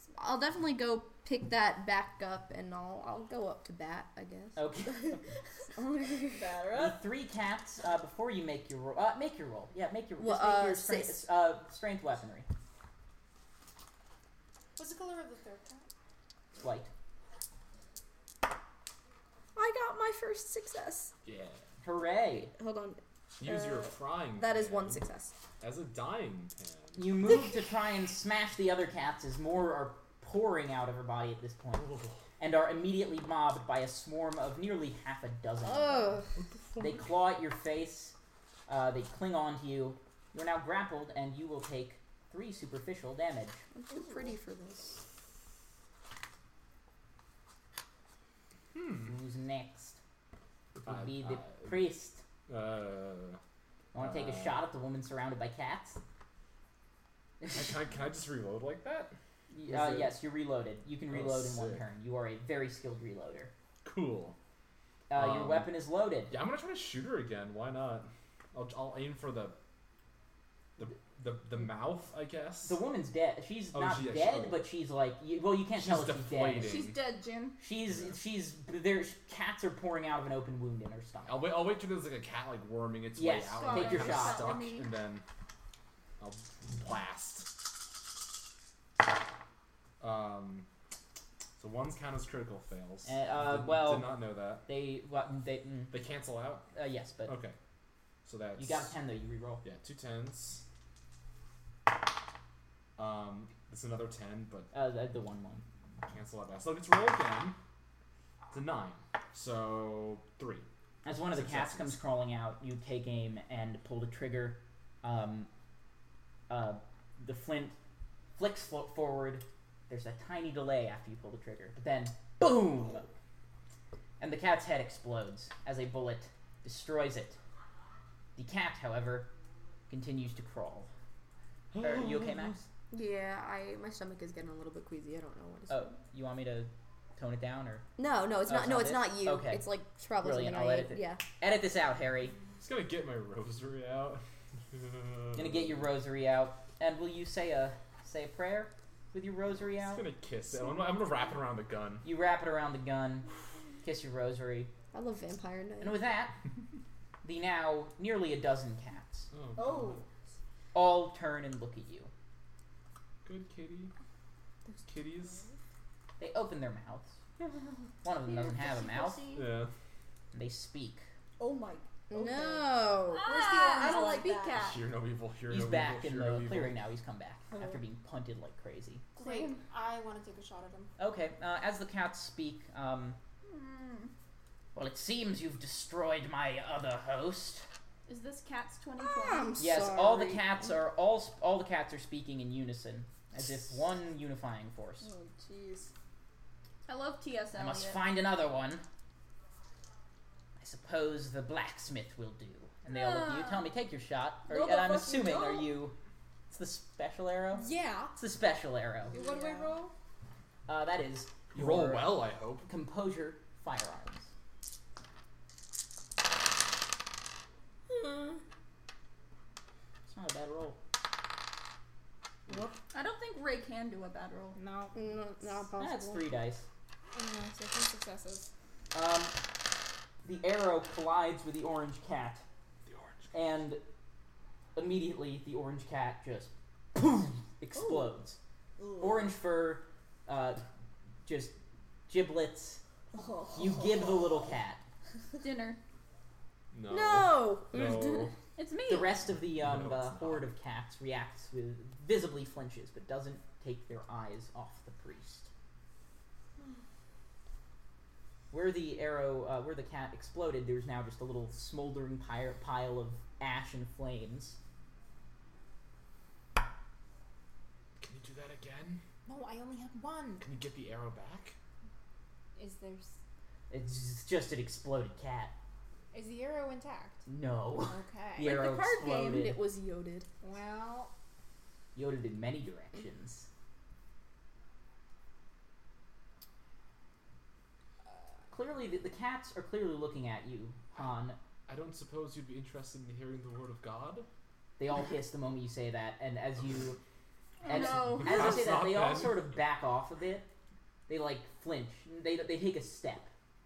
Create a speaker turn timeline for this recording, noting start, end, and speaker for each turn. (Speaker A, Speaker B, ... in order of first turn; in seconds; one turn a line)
Speaker A: 0.1-4.6
Speaker B: 4.6-5.2
Speaker A: 5.8-6.5
Speaker C: 6.3-7.0
Speaker B: 6.7-12.5
Speaker A: 10.2-11.2
Speaker D: 14.8-15.9
Speaker B: 16.6-16.9
Speaker A: 19.6-21.1
Speaker E: 21.2-21.6
Speaker B: 21.8-22.5
Speaker A: 22.5-25.4
Speaker E: 23.4-25.1
Speaker E: 25.6-27.1
Speaker B: 27.0-36.2
Speaker E: 31.8-32.2
Speaker A: 35.6-36.3
Speaker E: 36.4-37.1
Speaker B: 36.8-38.1
Speaker B: 38.7-43.6
Speaker A: 43.7-45.0
Speaker C: 43.9-44.3
Speaker E: 48.7-49.1
Speaker B: 49.0-50.0
Speaker B: 50.8-52.2
Speaker E: 50.8-51.8
Speaker E: 52.5-53.4
Speaker B: 53.9-56.0
Speaker E: 54.0-54.6
Speaker B: 57.4-57.7
Speaker E: 57.5-60.2
Speaker B: 59.5-63.5
Speaker E: 61.1-61.8
Speaker E: 63.9-64.4
Speaker B: 65.1-66.3
Speaker E: 65.1-65.7
Speaker E: 66.3-69.6
Speaker E: 70.8-72.8
Speaker B: 72.6-76.8
Speaker E: 73.7-74.6
Speaker E: 75.8-77.0
Speaker F: 76.6-77.6
Speaker B: 77.6-81.5
Speaker E: 77.9-78.2
Speaker E: 81.3-85.2
Speaker B: 83.2-84.6
Speaker F: 83.5-84.9
Speaker E: 86.2-87.5
Speaker E: 90.0-90.7
Speaker E: 91.6-94.7
Speaker B: 93.0-96.0
Speaker E: 95.9-96.6
Speaker B: 96.7-97.3
Speaker E: 97.3-97.6
Speaker E: 98.2-98.9
Speaker B: 98.6-99.6
Speaker E: 99.6-100.6
Speaker E: 103.0-104.7
Speaker B: 104.7-105.6
Speaker E: 106.1-107.6
Speaker E: 108.5-112.0
Speaker B: 111.0-115.5
Speaker B: 116.5-117.8
Speaker B: 118.4-123.1
Speaker B: 124.2-127.4
Speaker B: 128.4-129.3
Speaker B: 129.9-130.9
Speaker E: 131.7-132.5
Speaker B: 131.8-132.6
Speaker A: 132.9-135.9
Speaker B: 135.7-137.9
Speaker A: 138.0-141.2
Speaker B: 138.4-142.4
Speaker E: 142.6-145.8
Speaker B: 145.3-150.1
Speaker E: 149.8-152.1
Speaker B: 152.0-153.3
Speaker B: 153.8-154.7
Speaker A: 154.9-156.0
Speaker B: 155.8-156.4
Speaker B: 157.2-159.3
Speaker E: 159.3-160.0
Speaker C: 159.6-160.0
Speaker B: 160.7-162.1
Speaker E: 163.2-163.9
Speaker E: 164.7-165.4
Speaker B: 166.2-167.2
Speaker B: 168.0-169.3
Speaker F: 168.2-169.5
Speaker E: 169.3-169.7
Speaker B: 170.3-171.1
Speaker C: 171.4-174.6
Speaker A: 172.1-173.3
Speaker F: 173.1-174.8
Speaker E: 174.6-176.8
Speaker B: 175.5-179.1
Speaker D: 179.2-180.9
Speaker F: 179.2-179.6
Speaker B: 181.0-183.2
Speaker F: 183.5-184.1
Speaker B: 184.8-187.7
Speaker F: 188.1-189.6
Speaker A: 189.0-190.7
Speaker B: 189.6-195.1
Speaker C: 195.0-195.9
Speaker F: 196.9-198.1
Speaker B: 197.6-198.8
Speaker B: 200.6-206.0
Speaker F: 202.9-203.7
Speaker C: 204.5-205.7
Speaker B: 206.5-209.2
Speaker D: 207.5-208.1
Speaker D: 209.1-209.9
Speaker C: 209.1-209.8
Speaker B: 210.7-214.3
Speaker E: 211.5-212.7
Speaker B: 220.1-220.8
Speaker F: 222.9-224.6
Speaker D: 224.5-225.0
Speaker A: 224.9-226.3
Speaker B: 225.8-226.7
Speaker D: 227.1-228.5
Speaker B: 228.9-229.4
Speaker B: 230.2-232.4
Speaker E: 232.9-233.3
Speaker B: 233.3-233.8
Speaker B: 234.8-238.4
Speaker C: 237.7-238.2
Speaker C: 238.8-239.4
Speaker B: 239.0-240.6
Speaker B: 241.2-241.6
Speaker B: 242.1-242.8
Speaker C: 243.1-244.2
Speaker B: 243.5-244.8
Speaker F: 245.4-245.8
Speaker E: 246.7-248.3
Speaker A: 246.9-248.3
Speaker F: 248.6-249.2
Speaker B: 248.9-255.5
Speaker E: 249.3-250.5
Speaker B: 258.5-264.6
Speaker E: 268.0-269.0
Speaker D: 269.3-270.5
Speaker E: 270.4-271.6
Speaker D: 272.6-273.2
Speaker B: 273.7-275.5
Speaker D: 276.1-277.2
Speaker B: 277.3-279.6
Speaker D: 277.8-278.6
Speaker A: 278.4-280.3
Speaker D: 280.4-281.1
Speaker B: 281.9-283.5
Speaker B: 288.5-291.4
Speaker E: 291.7-294.3
Speaker B: 294.8-297.0
Speaker F: 297.6-298.7
Speaker B: 297.7-300.5
Speaker E: 297.7-299.5
Speaker B: 301.1-303.3